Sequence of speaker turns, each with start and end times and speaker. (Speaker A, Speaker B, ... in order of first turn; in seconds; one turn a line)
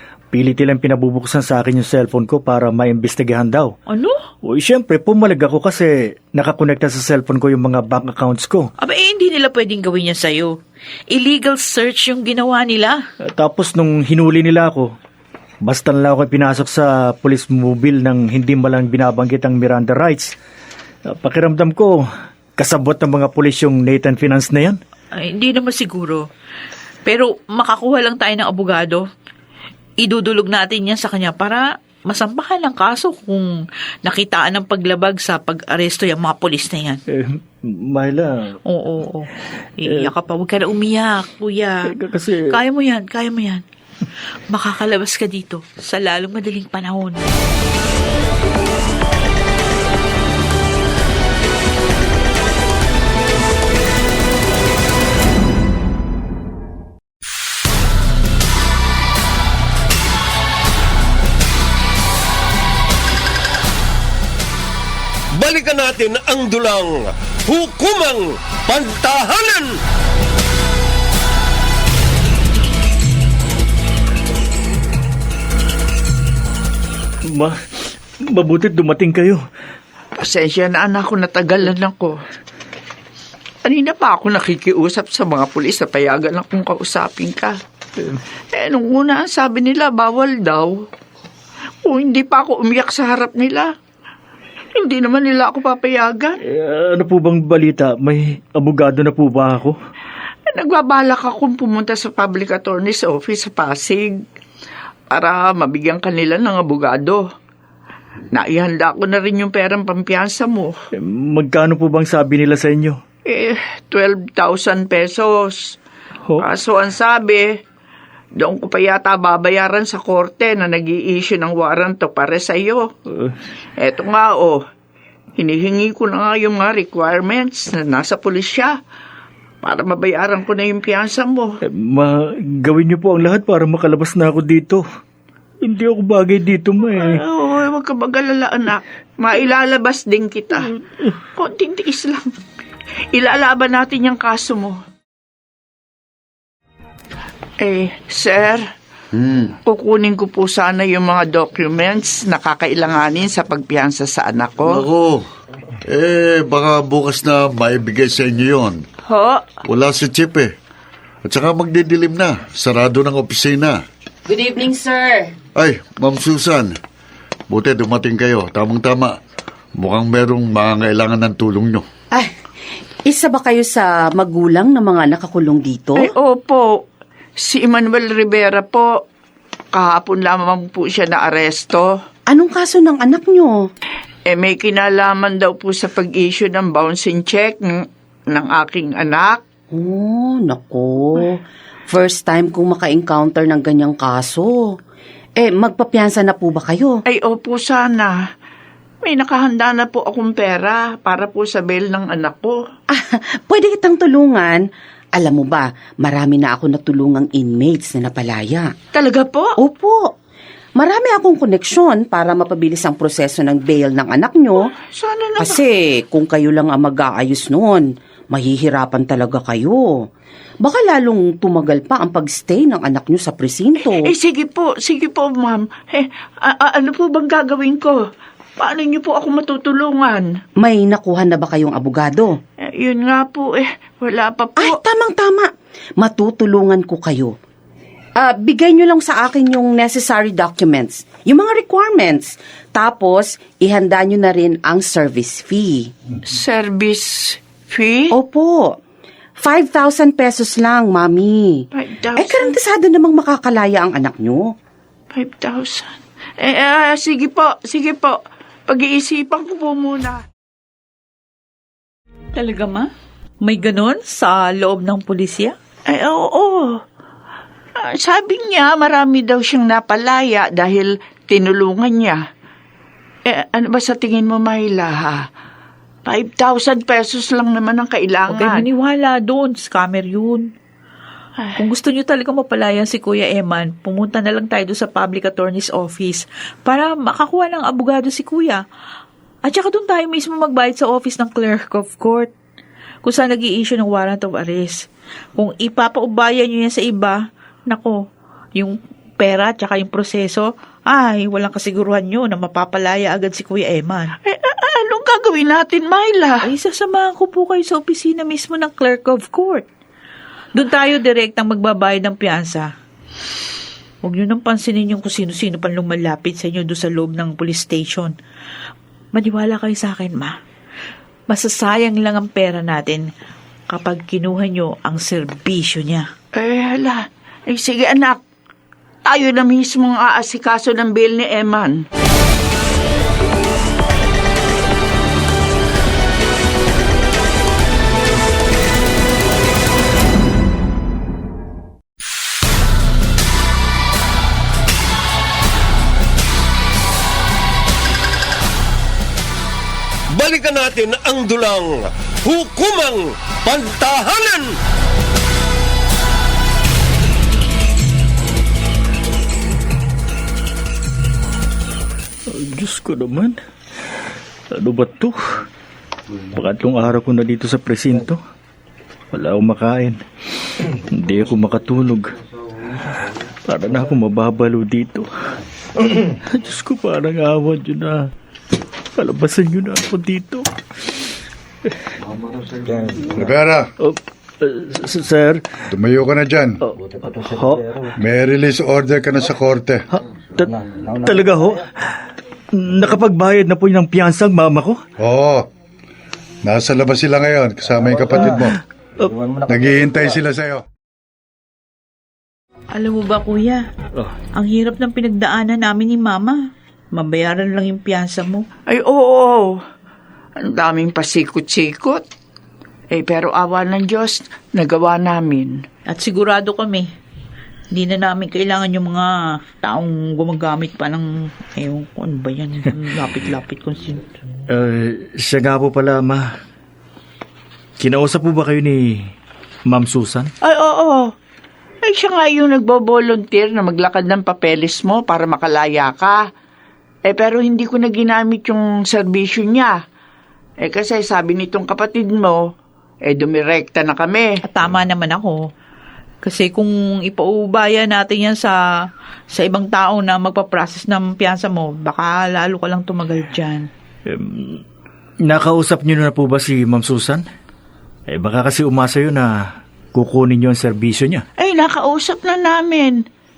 Speaker A: 0.3-3.8
Speaker B: 3.9-4.2
Speaker A: 4.4-8.7
Speaker B: 8.8-10.6
Speaker B: 11.1-13.0
Speaker A: 13.2-14.9
Speaker A: 15.6-20.4
Speaker A: 21.1-22.1
Speaker A: 22.6-24.8
Speaker B: 25.1-26.3
Speaker B: 27.1-29.0
Speaker B: 30.0-37.0
Speaker A: 37.1-38.5
Speaker B: 38.7-41.9
Speaker A: 39.9-40.1
Speaker A: 41.9-42.5
Speaker B: 42.5-43.6
Speaker B: 44.5-47.2
Speaker C: 65.3-69.7
Speaker A: 77.3-79.5
Speaker D: 80.2-82.2
Speaker D: 83.7-87.6
Speaker D: 88.5-90.8
Speaker D: 91.8-93.7
Speaker D: 94.8-96.3
Speaker A: 96.5-99.8
Speaker D: 100.5-104.2
Speaker D: 105.1-107.2
Speaker D: 108.3-110.7
Speaker A: 111.0-113.0
Speaker D: 113.3-115.8
Speaker D: 116.4-117.5
Speaker D: 118.3-122.9
Speaker D: 123.8-124.6
Speaker D: 125.4-128.8
Speaker D: 129.6-131.5
Speaker A: 131.6-134.8
Speaker A: 135.6-137.2
Speaker D: 137.0-140.7
Speaker A: 140.7-141.1
Speaker D: 141.4-142.2
Speaker D: 143.1-144.8
Speaker D: 147.6-148.7
Speaker E: 149.1-149.5
Speaker D: 149.7-154.9
Speaker E: 154.7-155.3
Speaker E: 155.9-158.8
Speaker D: 159.1-159.6
Speaker E: 159.7-160.5
Speaker E: 161.2-163.8
Speaker F: 164.3-165.3
Speaker E: 165.6-166.8
Speaker E: 167.5-169.2
Speaker E: 169.8-171.9
Speaker F: 173.1-176.1
Speaker D: 176.0-176.8
Speaker D: 177.4-178.9
Speaker D: 179.7-181.9
Speaker F: 182.3-183.7
Speaker D: 184.3-189.4
Speaker F: 189.7-194.8
Speaker F: 195.4-197.0
Speaker D: 197.1-198.2
Speaker D: 199.0-202.6
Speaker F: 202.9-208.8
Speaker D: 208.9-209.5
Speaker F: 209.6-210.1
Speaker F: 210.8-214.7
Speaker D: 214.7-215.6
Speaker F: 215.4-220.0
Speaker F: 220.6-224.1
Speaker D: 223.8-228.0
Speaker D: 228.6-230.3
Speaker F: 230.6-232.4
Speaker D: 232.6-234.8
Speaker F: 234.6-237.3
Speaker F: 238.2-245.9
Speaker D: 246.3-248.1
Speaker F: 248.1-248.8
Speaker F: 249.4-254.5
Speaker D: 251.8-252.6
Speaker D: 255.1-260.2
Speaker B: 262.4-262.9
Speaker B: 263.4-265.6
Speaker D: 265.9-266.8
Speaker D: 267.8-272.2
Speaker D: 273.3-275.3
Speaker D: 276.1-278.6
Speaker B: 278.3-280.5
Speaker B: 281.6-288.6
Speaker B: 289.4-292.3
Speaker B: 293.0-298.0
Speaker B: 298.6-304.1
Speaker D: 304.2-306.4
Speaker B: 306.4-309.7
Speaker B: 310.5-312.7
Speaker B: 314.0-318.1
Speaker B: 319.1-320.4
Speaker B: 321.3-323.1
Speaker B: 323.7-326.1
Speaker D: 326.4-328.2
Speaker D: 329.1-331.8
Speaker C: 350.1-354.5
Speaker A: 362.3-363.4
Speaker A: 364.5-365.4
Speaker A: 366.3-368.2
Speaker A: 369.1-372.1
Speaker A: 373.5-375.1
Speaker A: 375.8-378.1
Speaker A: 379.0-380.9
Speaker A: 382.7-383.1
Speaker G: 383.1-383.7
Speaker A: 383.8-385.4
Speaker G: 385.7-386.6
Speaker A: 386.7-387.8
Speaker G: 388.0-389.9
Speaker A: 390.4-391.9
Speaker A: 392.6-394.8
Speaker G: 395.0-395.5
Speaker G: 396.4-398.6
Speaker G: 399.5-400.6
Speaker B: 402.7-403.7
Speaker B: 404.4-406.4
Speaker B: 406.9-408.5
Speaker D: 408.7-409.5
Speaker D: 410.4-412.0
Speaker D: 412.9-415.6
Speaker B: 415.9-416.9
Speaker B: 417.7-424.1
Speaker A: 424.5-426.3
Speaker A: 427.8-429.1
Speaker A: 429.7-430.3
Speaker D: 430.4-431.1
Speaker D: 431.8-436.3
Speaker D: 437.1-439.8
Speaker D: 440.6-444.3
Speaker B: 444.4-445.4
Speaker B: 446.2-448.6
Speaker B: 449.3-453.7
Speaker A: 454.1-454.6
Speaker A: 455.2-457.2
Speaker A: 458.1-461.2
Speaker D: 461.4-463.0